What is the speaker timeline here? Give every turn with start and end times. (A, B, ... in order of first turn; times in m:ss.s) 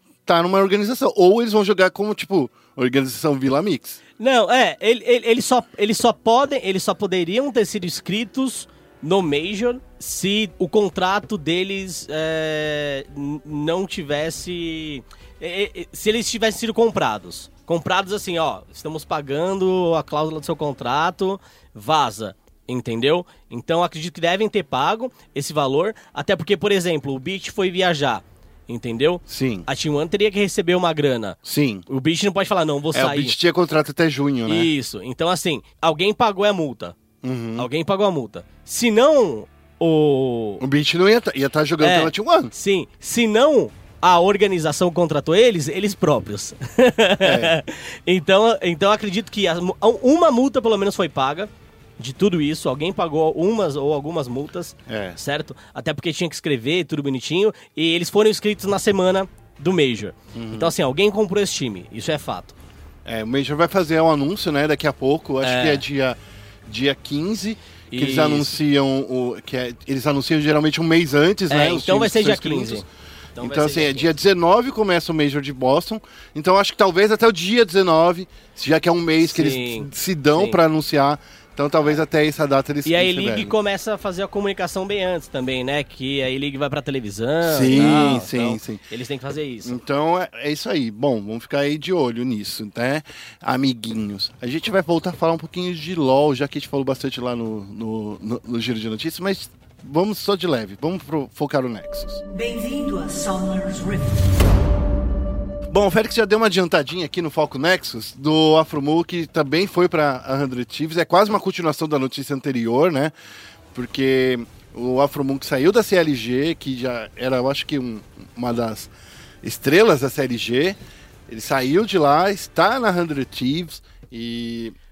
0:00.2-0:04.0 A
0:04.2-0:33.3 B
0:29.3-0:29.6 A
0:31.4-0:31.8 A
0:32.9-0:34.7 A
0:34.5-0:36.9 B
0:37.2-0:37.7 A
0:37.6-0:40.6 B
0:40.6-0:42.5 A
0:41.8-1:02.5 B
0:47.2-0:47.5 A
0:54.9-0:55.2 A
1:00.3-1:00.7 A
1:03.0-1:12.8 A
1:05.4-1:05.8 B
1:07.9-1:08.6 B
1:11.5-1:12.8 B
1:13.4-1:14.1 B
1:13.4-1:23.5 A
1:19.2-1:20.6 B
1:22.8-1:29.8 B
1:27.4-1:28.8 A
1:29.6-1:42.2 A
1:42.3-1:44.2 B
1:45.7-1:53.1 A
1:53.7-1:58.9 A
1:59.4-2:00.8 A
2:01.3-2:04.7 A